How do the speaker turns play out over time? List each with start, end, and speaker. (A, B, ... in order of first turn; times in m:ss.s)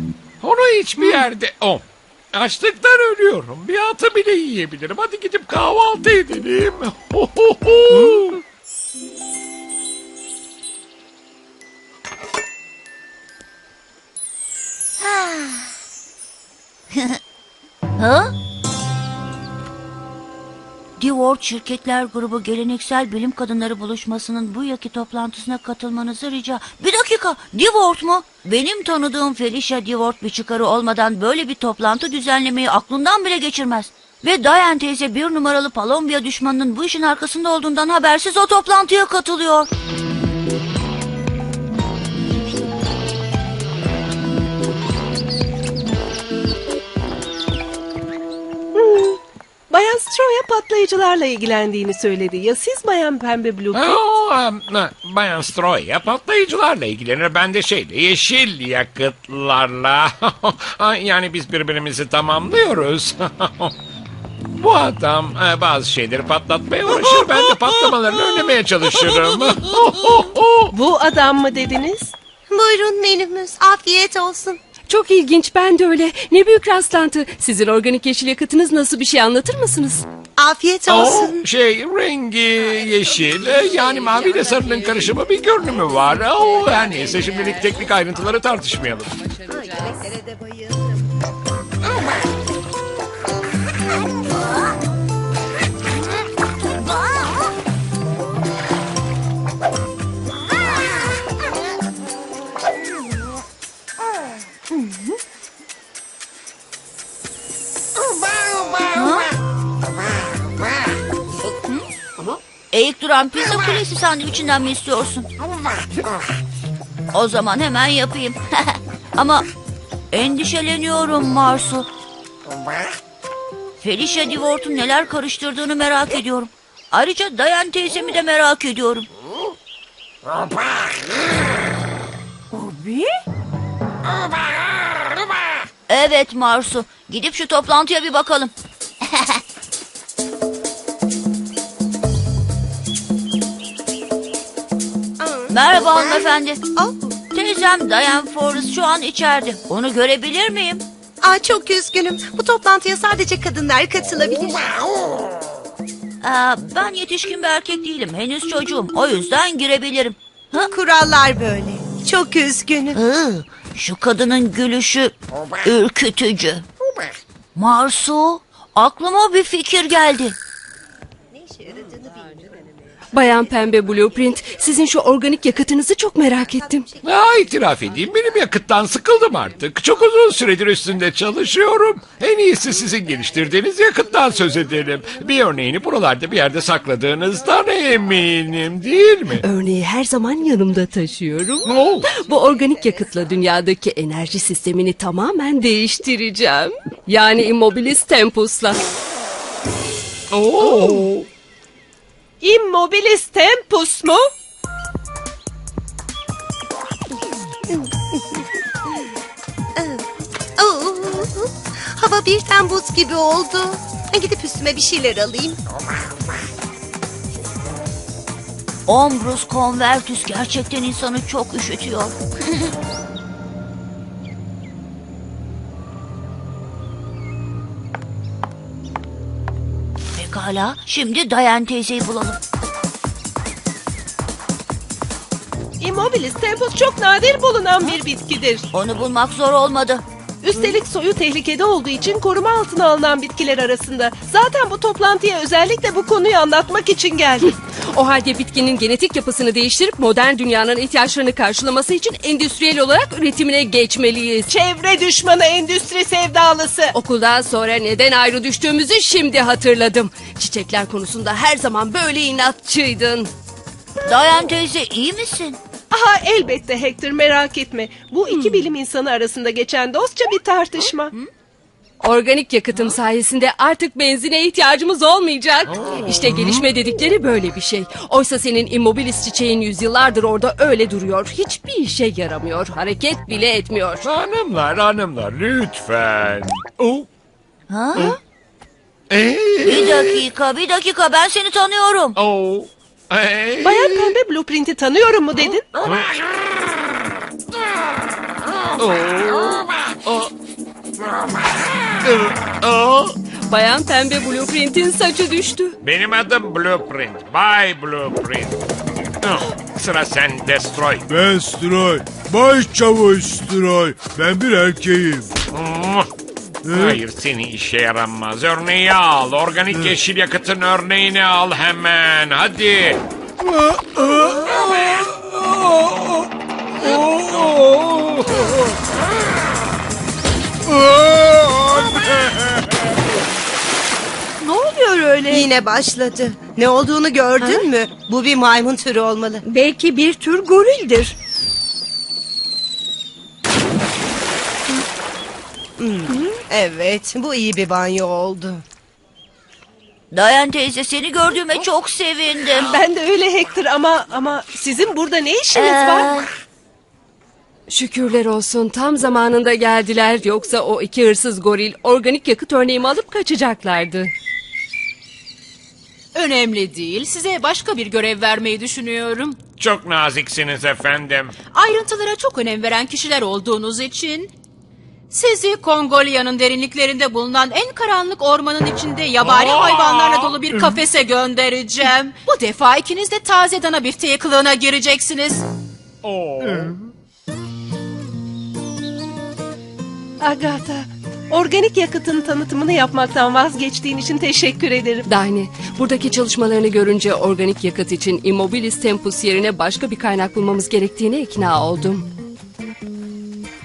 0:00.4-0:08.4 A
0:15.0-0:15.7 B
0:16.9-0:17.2 B
0:18.0-0:18.3 B
0:21.0-0:39.7 B
0:48.7-0:49.2 C
0:49.7-0:54.0 C
0:53.7-1:03.7 A
1:04.6-1:10.7 A
1:07.0-1:07.4 C
1:10.7-1:12.1 C
1:12.5-1:14.6 D
1:14.9-1:20.0 E
1:20.4-1:21.4 D
1:20.9-1:29.1 A
1:23.4-1:28.4 E
1:29.2-1:30.1 E
1:29.5-1:31.0 D
1:48.9-1:49.3 B
1:52.7-1:55.3 B
1:57.1-1:59.4 B
2:00.1-2:01.9 B
2:03.8-2:09.1 B
2:15.9-2:18.5 B
2:19.1-2:19.4 B
2:25.2-2:25.6 D
2:25.5-2:26.6 B
2:26.7-2:27.2 D
2:27.3-2:30.8 B
2:31.2-2:34.7 D
2:36.2-2:40.7 B
2:40.7-2:43.0 D
2:42.9-2:46.6 B
2:47.6-2:50.4 B
2:51.3-2:52.6 D
2:53.1-2:56.9 E
2:57.0-3:09.4 A
3:09.4-3:18.8 E
3:11.6-3:12.1 A
3:20.3-3:21.3 A
3:20.6-3:20.9 C
3:22.4-3:24.2 C
3:29.8-3:30.0 D
3:30.6-3:35.6 D
3:38.9-3:42.7 B
3:50.1-3:52.4 B
3:55.8-3:58.7 C
3:58.7-4:00.0 B
4:00.4-4:07.5 C
4:07.4-4:14.5 E
4:14.5-4:16.9 C
4:16.9-4:23.3 E
4:24.0-4:25.6 B
4:25.9-4:31.1 C
4:28.3-4:28.7 E
4:30.8-4:31.2 B
4:32.0-4:44.0 E
4:35.7-4:36.6 A
4:44.0-4:47.1 A
4:47.7-4:48.0 B
4:49.1-4:50.3 A
4:49.6-4:52.2 B
4:52.2-4:54.1 A
4:53.6-4:55.6 C
4:55.8-4:56.1 A
4:58.8-5:00.3 A
5:02.0-5:03.2 A
5:03.5-5:05.8 E
5:05.8-5:08.6 A
5:09.2-5:11.0 A
5:11.1-5:15.3 F
5:15.5-5:16.1 A
5:16.6-5:17.0 F
5:16.7-5:23.0 A
5:19.7-5:20.0 F
5:23.4-5:26.2 F
5:27.0-5:28.2 F
5:30.7-5:32.6 F
5:34.4-5:35.5 G
5:35.3-5:39.4 D
5:39.4-5:41.1 G
5:45.8-5:48.6 D
5:50.1-5:52.7 B
5:52.7-5:56.1 C
5:55.5-5:56.3 B
5:57.7-6:04.1 E
6:06.1-6:09.4 H
6:09.6-6:11.3 A
6:11.5-6:14.3 H
6:15.1-6:25.4 H
6:19.2-6:20.7 A
6:26.0-6:26.7 A
6:26.4-6:26.7 F
6:30.2-6:35.0 C
6:35.0-6:42.0 E